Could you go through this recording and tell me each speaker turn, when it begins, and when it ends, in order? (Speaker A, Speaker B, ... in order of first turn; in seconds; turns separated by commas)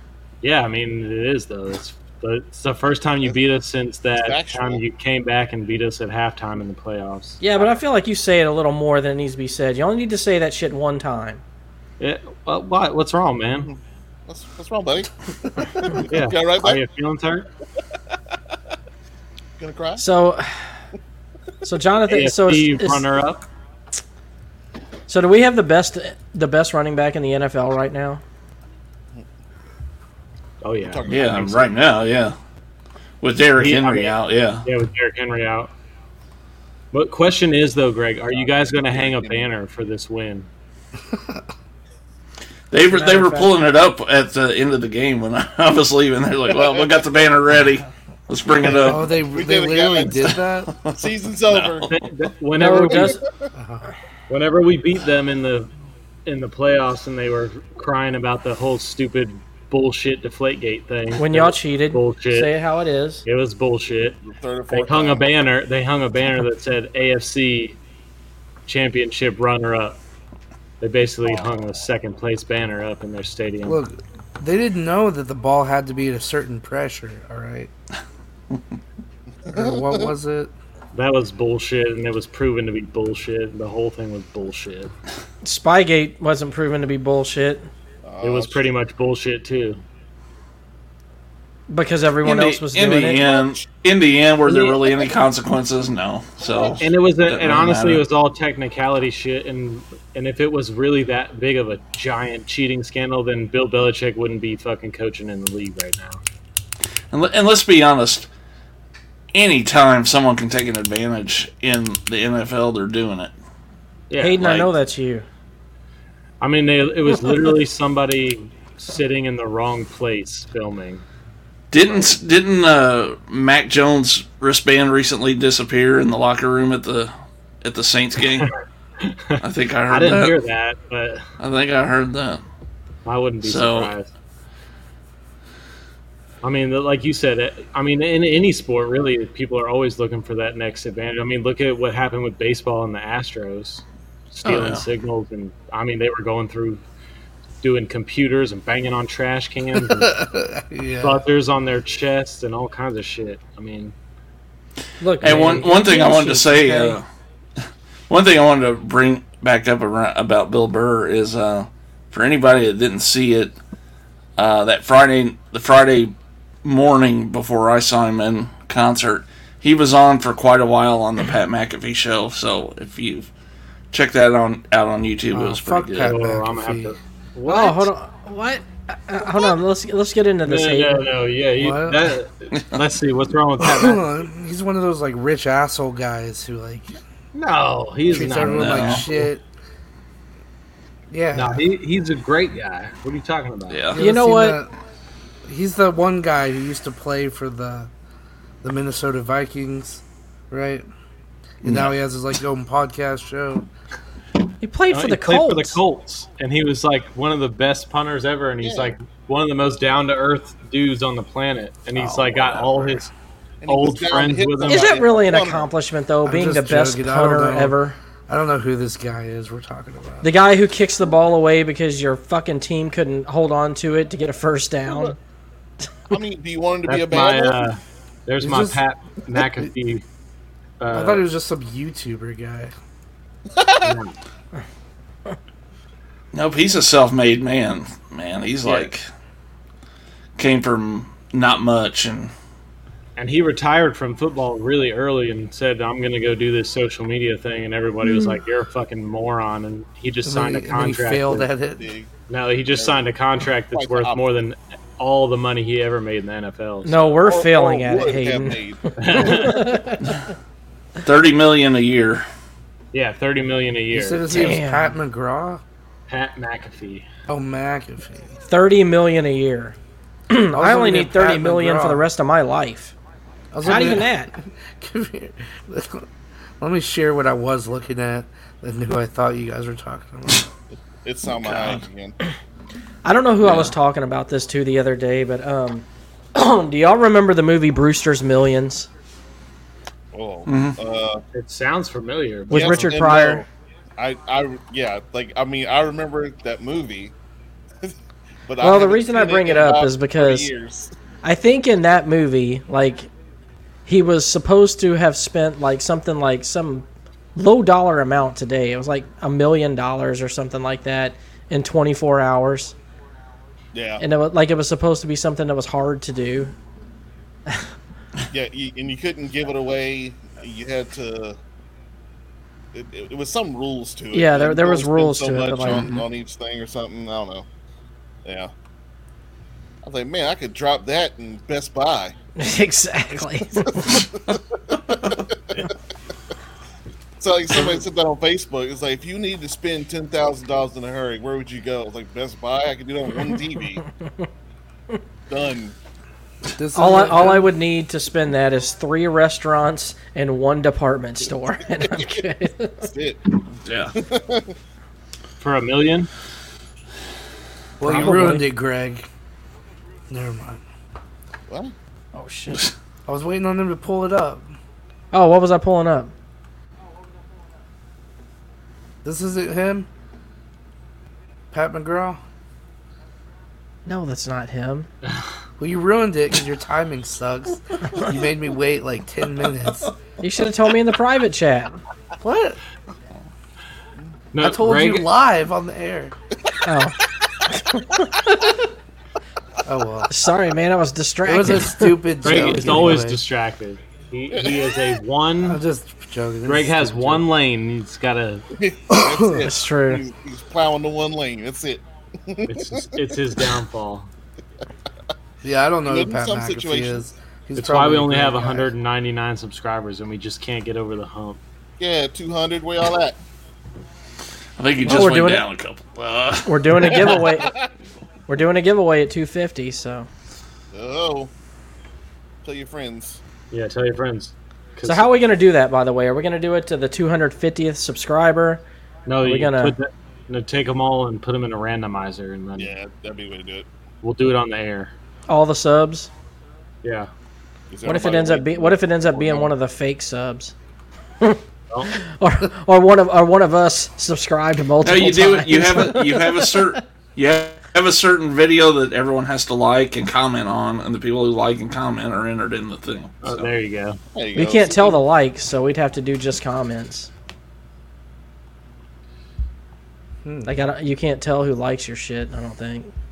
Speaker A: 0.4-7.4, Speaker B: 4.2-4.8, Speaker C: 7.4-11.4, Speaker A: 12.0-13.7, Speaker B: 13.7-16.8, Speaker A: 16.1-17.5, Speaker B: 19.6-20.1, Speaker C: 20.0-20.6, Speaker C: 21.6-23.1, Speaker A: 22.1-23.5, Speaker C: 25.1-28.2, Speaker A: 30.6-31.1, Speaker B: 30.8-31.8, Speaker D: 31.1-32.4, Speaker D: 33.2-34.6, Speaker A: 33.6-35.7, Speaker A: 36.9-40.5, Speaker B: 38.3-39.5, Speaker E: 41.1-41.5, Speaker D: 42.7-49.1, Speaker C: 42.9-43.5, Speaker E: 48.8-50.7, Speaker B: 49.2-50.4, Speaker D: 50.7-51.8, Speaker B: 50.9-51.9, Speaker A: 51.9-53.2, Speaker C: 52.6-53.2, Speaker B: 52.6-53.2, Speaker E: 53.5-53.9, Speaker A: 54.3-55.7, Speaker A: 56.3-62.5, Speaker C: 61.2-63.2, Speaker A: 63.2-67.8, Speaker B: 64.2-65.3, Speaker A: 68.7-70.0, Speaker A: 70.8-73.8, Speaker B: 71.2-71.5, Speaker E: 73.7-77.7, Speaker B: 79.5-80.1, Speaker E: 79.5-80.5, Speaker A: 80.9-84.9, Speaker C: 85.4-87.7, Speaker B: 88.0-88.7, Speaker A: 88.2-89.8, Speaker C: 91.7-93.2, Speaker D: 92.2-98.0, Speaker A: 94.5-94.8, Speaker A: 96.8-106.2, Speaker D: 107.1-108.3, Speaker D: 109.3-113.3, Speaker A: 114.1-114.4, Speaker C: 114.2-115.3, Speaker D: 114.4-114.7, Speaker A: 116.4-121.0, Speaker D: 121.7-128.5, Speaker A: 128.3-131.3, Speaker D: 129.4-130.4, Speaker D: 131.4-132.4, Speaker A: 133.1-134.1, Speaker D: 133.4-133.9, Speaker A: 136.4-146.8, Speaker D: 144.4-144.8, Speaker A: 147.6-150.2, Speaker E: 149.8-151.2, Speaker A: 151.0-153.9, Speaker C: 155.0-157.0, Speaker D: 155.2-157.1, Speaker D: 158.1-163.6, Speaker D: 164.4-173.3, Speaker D: 173.9-176.2, Speaker E: 175.3-177.0, Speaker A: 176.1-177.9, Speaker C: 177.5-181.1, Speaker A: 180.4-184.0, Speaker E: 181.6-182.1, Speaker E: 183.6-186.9, Speaker A: 187.3-189.2, Speaker E: 188.1-189.4, Speaker D: 188.4-189.1, Speaker E: 191.1-191.6, Speaker A: 191.3-193.9, Speaker D: 193.7-194.0, Speaker E: 193.9-194.7, Speaker C: 194.0-194.6, Speaker E: 195.4-197.9, Speaker E: 198.6-200.9, Speaker E: 201.6-203.7, Speaker D: 201.6-201.9, Speaker C: 204.6-205.8, Speaker A: 204.9-213.1, Speaker B: 208.6-209.0, Speaker B: 212.0-213.0, Speaker B: 213.6-215.7, Speaker A: 213.7-214.9, Speaker C: 214.6-218.0, Speaker E: 216.2-220.3, Speaker C: 220.2-225.2, Speaker B: 224.9-225.2, Speaker B: 226.1-227.7, Speaker A: 226.9-230.0, Speaker E: 228.4-228.8, Speaker A: 230.8-231.2, Speaker E: 230.9-232.7, Speaker B: 233.5-234.0, Speaker A: 233.8-234.2, Speaker D: 236.3-239.1, Speaker A: 238.6-238.9, Speaker D: 240.4-242.3, Speaker A: 243.2-251.5, Speaker C: 248.1-248.3, Speaker E: 250.2-251.9, Speaker B: 251.8-252.1, Speaker A: 252.3-257.0, Speaker B: 252.7-253.1, Speaker B: 253.7-254.2, Speaker C: 256.9-258.6, Speaker B: 257.3-259.8, Speaker A: 259.0-259.6, Speaker C: 259.2-260.0, Speaker D: 261.0-262.3, Speaker A: 262.9-264.3, Speaker E: 263.9-265.6, Speaker C: 264.3-264.9, Speaker A: 266.1-267.1, Speaker E: 267.3-268.4, Speaker C: 268.5-269.8, Speaker C: 270.3-272.9, Speaker E: 270.5-272.0, Speaker E: 273.5-276.1, Speaker C: 273.6-274.3, Speaker E: 276.6-280.5, Speaker B: 281.0-282.2, Speaker D: 281.4-281.8, Speaker C: 283.0-288.9, Speaker D: 283.4-283.7, Speaker B: 290.1-291.2, Speaker D: 290.5-290.8, Speaker A: 291.3-292.9, Speaker C: 292.5-293.4, Speaker B: 292.5-293.5, Speaker B: 294.0-297.1, Speaker B: 298.5-300.9, Speaker C: 298.6-300.5, Speaker C: 301.2-303.1, Speaker C: 303.9-312.8, Speaker B: 313.7-314.0, Speaker C: 314.0-316.5, Speaker B: 318.3-321.4, Speaker B: 322.7-327.5, Speaker C: 324.1-326.0, Speaker B: 328.2-328.5, Speaker B: 329.8-332.1, Speaker C: 332.4-334.0, Speaker B: 333.7-335.7, Speaker B: 337.2-343.8, Speaker B: 345.3-345.8, Speaker E: 346.6-347.5, Speaker C: 346.8-352.9, Speaker B: 351.9-352.2, Speaker B: 352.8-353.2, Speaker D: 353.7-353.9, Speaker B: 354.0-354.5, Speaker A: 355.4-356.1, Speaker E: 357.8-359.1, Speaker C: 357.8-358.5, Speaker A: 357.9-358.3, Speaker E: 360.1-360.6, Speaker B: 361.5-361.7, Speaker C: 362.1-362.7, Speaker E: 363.1-364.5, Speaker C: 365.1-366.1, Speaker E: 369.0-369.9, Speaker E: 371.5-372.2, Speaker C: 373.9-374.9, Speaker E: 375.6-379.9, Speaker C: 380.2-381.8, Speaker E: 382.2-382.6, Speaker A: 384.3-385.1, Speaker E: 384.4-386.1, Speaker C: 386.6-387.0, Speaker C: 387.5-388.2, Speaker E: 389.6-390.1, Speaker C: 390.1-392.9, Speaker E: 391.2-393.2, Speaker A: 392.2-395.6, Speaker B: 394.3-394.7, Speaker E: 395.4-397.3, Speaker A: 396.4-398.5, Speaker B: 398.6-403.0, Speaker E: 398.9-399.5, Speaker C: 399.4-400.0, Speaker A: 402.5-404.1, Speaker E: 405.4-408.7, Speaker B: 405.9-407.0, Speaker A: 407.6-411.4, Speaker B: 411.8-413.2, Speaker D: 414.6-417.0, Speaker C: 414.9-415.4, Speaker C: 416.5-417.5, Speaker B: 417.1-417.7, Speaker C: 418.3-420.1, Speaker B: 420.7-421.3, Speaker B: 422.4-423.2, Speaker A: 423.5-425.2, Speaker C: 424.8-428.6, Speaker A: 429.1-432.7, Speaker C: 429.2-429.8, Speaker B: 432.6-433.7, Speaker A: 434.0-434.9, Speaker C: 435.3-436.1, Speaker A: 436.8-437.1, Speaker B: 437.7-439.5, Speaker C: 437.9-440.5, Speaker C: 441.9-446.6, Speaker D: 444.8-453.5, Speaker A: 453.2-454.0, Speaker B: 454.1-455.0, Speaker C: 454.4-457.1, Speaker E: 460.2-460.6, Speaker C: 460.4-462.9